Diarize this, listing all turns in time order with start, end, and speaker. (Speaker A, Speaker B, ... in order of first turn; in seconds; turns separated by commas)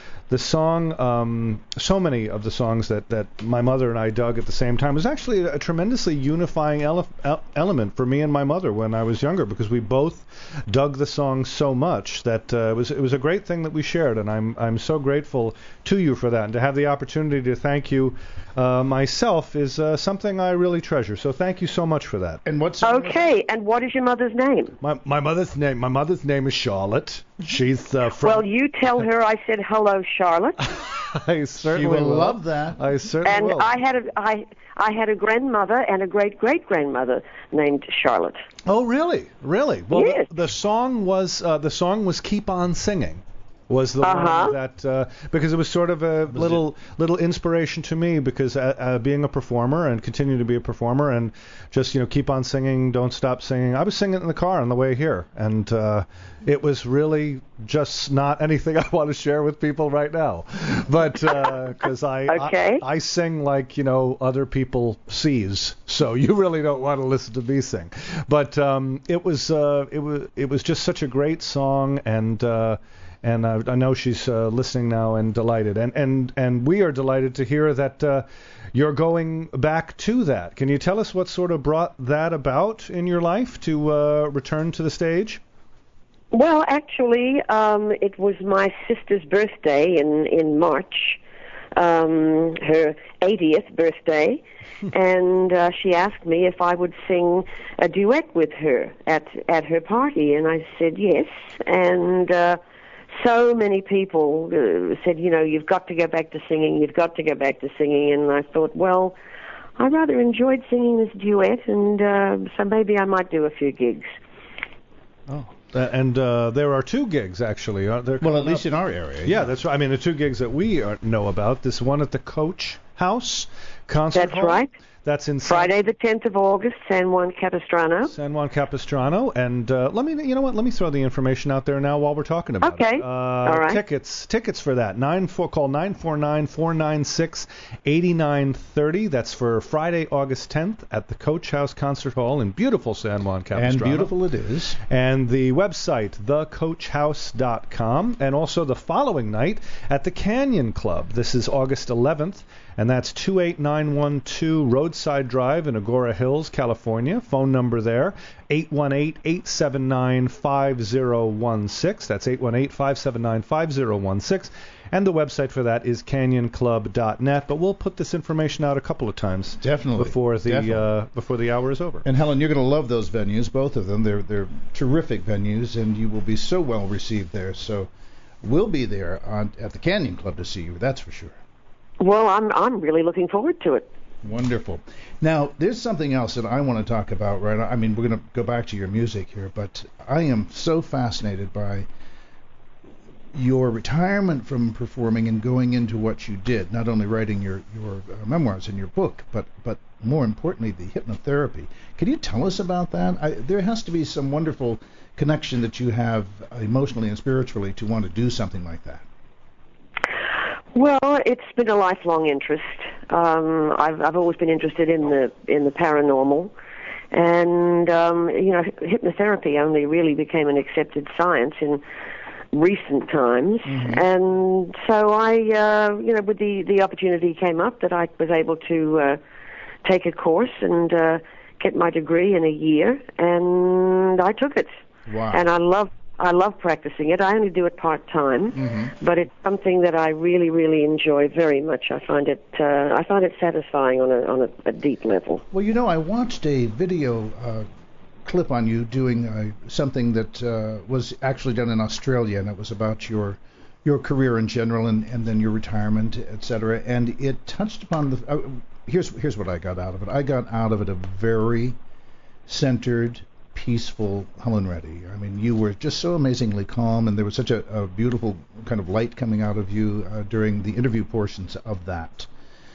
Speaker A: 0.3-22.4, Speaker B: 22.4-23.3, Speaker C: 22.8-24.7, Speaker A: 24.8-28.4, Speaker C: 28.2-30.6, Speaker A: 30.6-33.7, Speaker B: 31.6-32.9, Speaker C: 33.2-38.4, Speaker A: 38.6-85.4, Speaker C: 39.9-40.3, Speaker C: 44.0-44.5, Speaker B: 46.3-46.6, Speaker C: 62.3-62.8, Speaker C: 86.3-91.2, Speaker C: 91.7-102.6, Speaker C: 103.2-109.2, Speaker C: 109.8-114.1, Speaker A: 115.3-118.6, Speaker B: 118.2-119.5, Speaker A: 119.2-125.7, Speaker C: 124.1-124.7, Speaker C: 125.4-128.1, Speaker A: 128.1-144.1, Speaker C: 132.6-133.8, Speaker B: 143.5-144.8, Speaker A: 144.9-172.1, Speaker B: 169.6-170.9, Speaker B: 172.0-177.9, Speaker B: 178.4-181.4, Speaker C: 182.0-183.9, Speaker B: 184.2-191.9, Speaker B: 193.3-209.0, Speaker C: 210.7-216.5, Speaker C: 217.1-221.8, Speaker C: 222.5-229.2, Speaker B: 223.7-224.0, Speaker C: 229.8-234.7, Speaker B: 235.1-235.4, Speaker C: 235.3-245.4, Speaker B: 238.5-238.9, Speaker B: 245.5-247.7, Speaker B: 248.2-261.8, Speaker B: 262.5-272.3